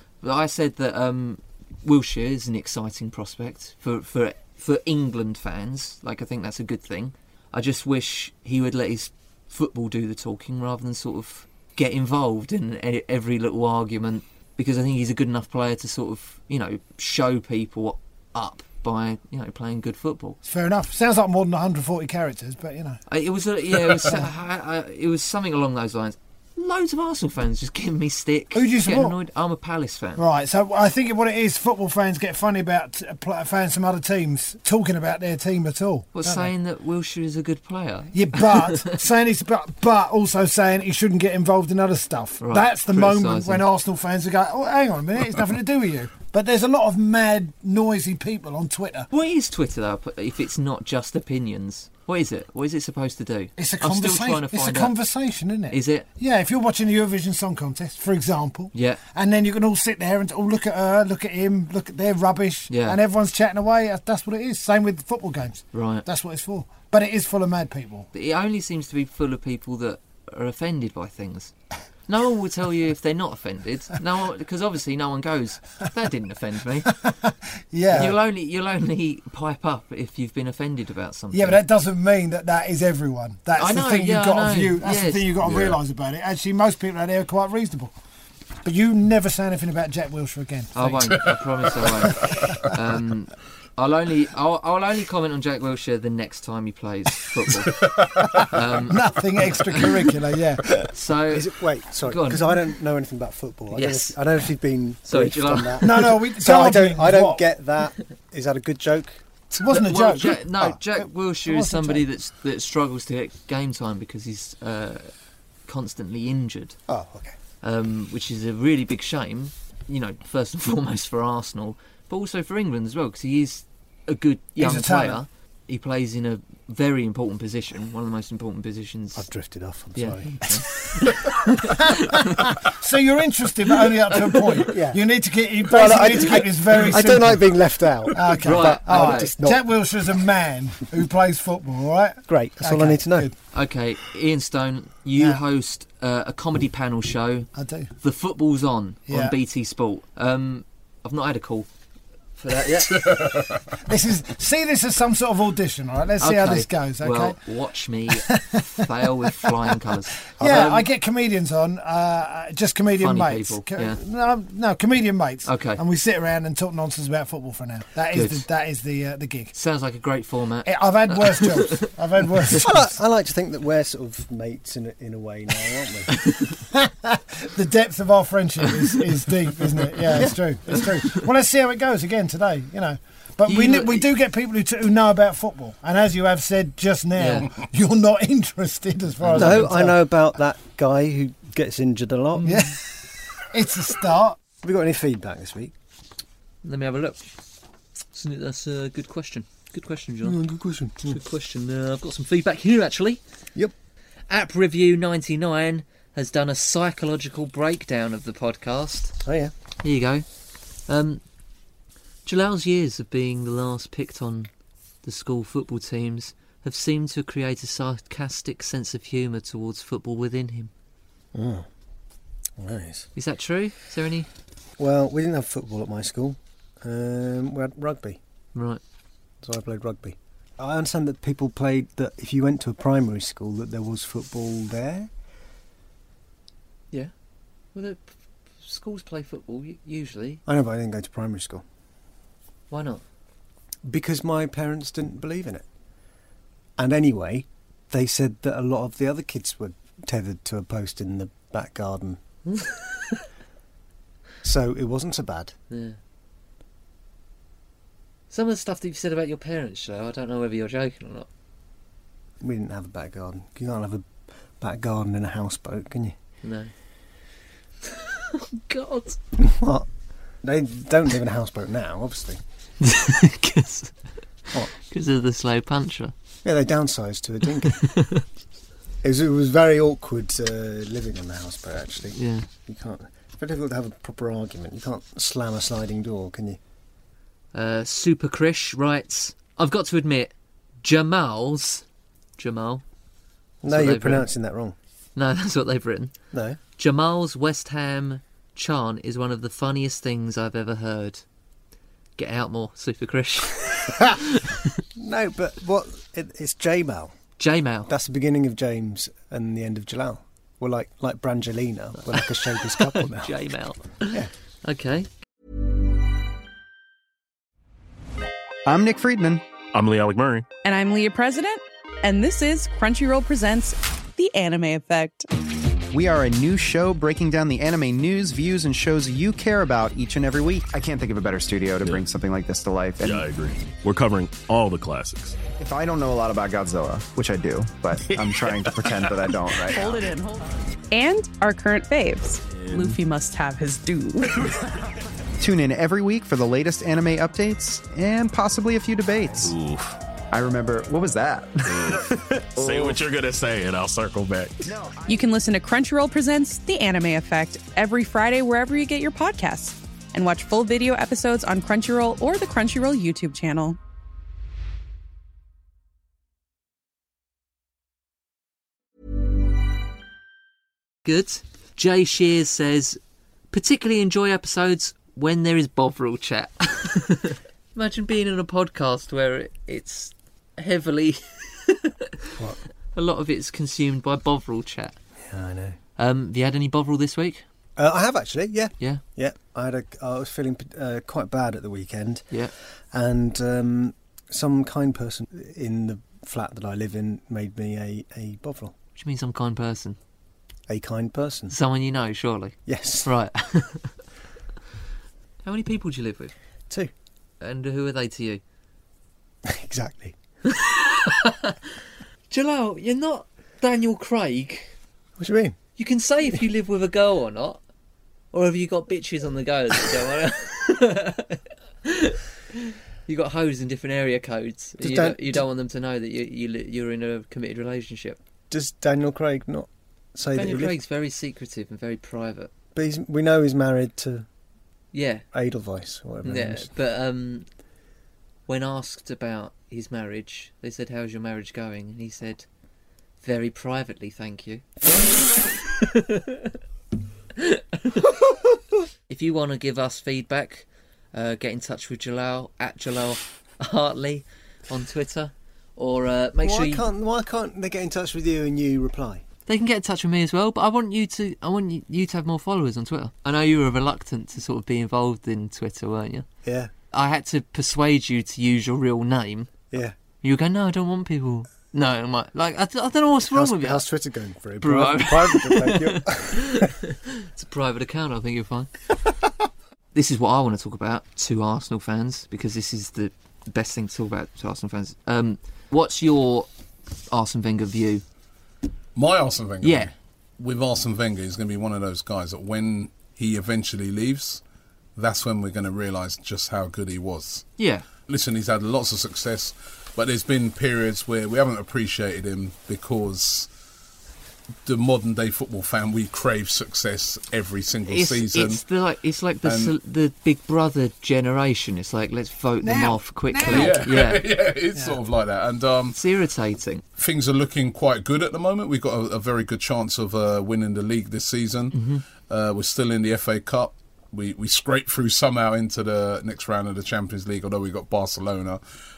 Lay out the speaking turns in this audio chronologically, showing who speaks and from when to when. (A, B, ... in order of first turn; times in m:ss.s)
0:00.2-0:20.4 A
0:20.4-0:23.0 B
0:23.1-0:30.2 A
0:28.5-0:29.2 B
0:30.2-0:36.5 B
0:36.1-0:38.9 A
0:38.1-0:49.1 B
0:42.4-0:43.6 A
0:49.1-0:55.0 A
0:53.6-1:08.1 B
0:55.7-0:56.1 A
0:58.7-0:59.0 A
1:02.7-1:03.0 A
1:05.7-1:06.1 A
1:08.1-1:11.5 A
1:12.1-1:16.9 A
1:17.0-1:18.2 B
1:17.9-1:21.6 A
1:21.3-1:27.9 B
1:23.6-1:25.3 A
1:25.4-1:25.8 C
1:28.6-1:31.1 B
1:30.8-1:37.9 A
1:31.1-1:32.6 C
1:32.2-1:32.7 B
1:37.8-1:38.4 C
1:38.4-1:40.6 B
1:38.5-1:39.0 A
1:40.8-1:42.6 A
1:41.3-1:49.2 D
1:43.7-1:44.2 A
1:45.1-1:45.9 A
1:45.8-1:47.4 B
1:49.5-1:52.0 B
1:49.7-1:55.1 A
1:55.7-1:56.8 A
1:56.9-1:57.4 D
1:57.6-2:09.3 A
2:04.6-2:05.2 B
2:09.2-2:10.7 D
2:10.0-2:12.4 A
2:11.1-2:17.4 B
2:14.1-2:14.7 A
2:14.7-2:15.0 D
2:15.6-2:19.7 D
2:18.1-2:23.3 B
2:18.4-2:19.3 A
2:22.3-2:23.3 D
2:23.5-2:27.5 A
2:27.6-2:27.9 B
2:28.0-2:31.7 A
2:29.1-2:29.4 B
2:32.4-2:33.2 A
2:32.9-2:33.6 C
2:33.8-2:37.4 B
2:36.2-2:40.8 A
2:38.1-2:38.6 B
2:40.4-2:49.5 B
2:43.0-2:44.0 A
2:45.4-2:45.8 A
2:48.1-2:48.4 A
2:49.5-2:51.9 A
2:50.6-2:52.9 B
2:52.5-2:56.1 D
2:56.7-3:10.0 B
3:00.1-3:00.8 D
3:00.8-3:01.2 A
3:03.5-3:04.1 A
3:07.2-3:07.5 A
3:09.2-3:09.7 A
3:09.3-3:12.6 D
3:12.4-3:12.7 A
3:12.4-3:14.4 B
3:14.6-3:15.7 D
3:16.6-3:17.3 A
3:18.1-3:20.4 A
3:20.2-3:21.2 D
3:21.0-3:23.2 A
3:24.3-3:29.2 A
3:29.2-3:29.5 D
3:29.8-3:30.3 A
3:30.9-3:31.2 A
3:32.2-3:34.5 A
3:35.0-3:40.7 A
3:41.3-3:41.7 D
3:42.6-3:43.1 D
3:43.2-3:44.3 A
3:44.8-3:48.2 D
3:48.6-3:48.8 A
3:49.4-3:55.1 D
3:57.7-4:00.4 A
4:00.5-4:01.6 D
4:02.7-4:03.0 A
4:03.8-4:05.7 D
4:06.8-4:12.2 D
4:12.5-4:13.2 A
4:14.4-4:15.5 D
4:15.7-4:16.0 A
4:18.3-4:21.3 A
4:22.4-4:26.2 D
4:26.4-4:26.7 A
4:27.9-4:29.2 A
4:29.4-4:29.9 D
4:30.4-4:32.4 D
4:32.8-4:33.9 A
4:34.7-4:36.1 A
4:36.4-4:37.9 D
4:37.8-4:38.2 A
4:39.0-4:46.6 D
4:42.2-4:42.5 A
4:47.5-4:51.8 A
4:52.4-4:52.8 A
4:53.6-4:54.8 D
4:53.7-4:54.3 A
4:55.2-4:56.1 A
4:56.3-4:56.6 D
4:56.8-5:01.2 A
5:02.2-5:04.7 A
5:05.0-5:07.1 D
5:07.4-5:07.9 A
5:07.9-5:13.4 D
5:12.1-5:15.1 A
5:18.6-5:19.4 E
5:19.7-5:20.5 F
5:20.6-5:25.3 G
5:25.9-5:33.2 E
5:33.0-5:35.4 F
5:35.5-5:40.1 E
5:38.0-5:39.2 F
5:39.7-5:44.5 G
5:42.5-5:43.0 F
5:45.4-5:49.5 E
5:49.4-5:50.0 F
5:50.3-5:53.0 E
5:51.7-5:54.6 F
5:54.6-5:55.2 E
5:55.1-6:03.8 G
6:11.0-6:13.0 A
6:13.5-6:22.4 A
6:22.9-6:25.0 A
6:25.2-6:25.8 D
6:26.0-6:27.4 A
6:27.8-6:32.3 D
6:32.9-6:38.7 D
6:39.0-6:40.0 A
6:40.7-6:41.6 D
6:41.5-6:43.9 A
6:42.7-6:43.1 D
6:45.4-6:46.3 A
6:47.4-6:48.4 A
6:49.4-6:50.2 D
6:50.5-6:51.6 A
6:52.3-6:54.7 A
6:55.2-6:55.6 D
6:55.8-6:57.6 A
6:58.3-7:08.2 A
7:04.8-7:05.4 D
7:08.5-7:10.8 D
7:10.3-7:12.5 A
7:12.8-7:14.3 D
7:14.9-7:15.2 A
7:15.3-7:16.7 D
7:16.2-7:17.5 A
7:18.5-7:22.5 A
7:23.2-7:24.6 A
7:25.8-7:26.5 A
7:27.4-7:28.2 A
7:29.1-7:36.9 A
7:36.4-7:39.2 D
7:39.5-7:46.3 A
7:46.4-7:46.7 D
7:46.9-7:49.5 A
7:50.2-7:53.9 A
7:53.3-7:56.7 D
7:54.6-7:58.7 A
7:59.9-8:06.5 A
8:07.1-8:08.0 A
8:09.0-8:14.4 C
8:09.6-8:09.9 A
8:15.0-8:17.5 C
8:17.6-8:17.9 A
8:18.1-8:23.5 C
8:24.7-8:28.6 C
8:27.9-8:34.2 A
8:29.4-8:29.7 C
8:32.6-8:33.9 B
8:33.5-8:36.0 C
8:35.9-8:36.8 A
8:37.0-8:48.6 C
8:41.7-8:42.0 A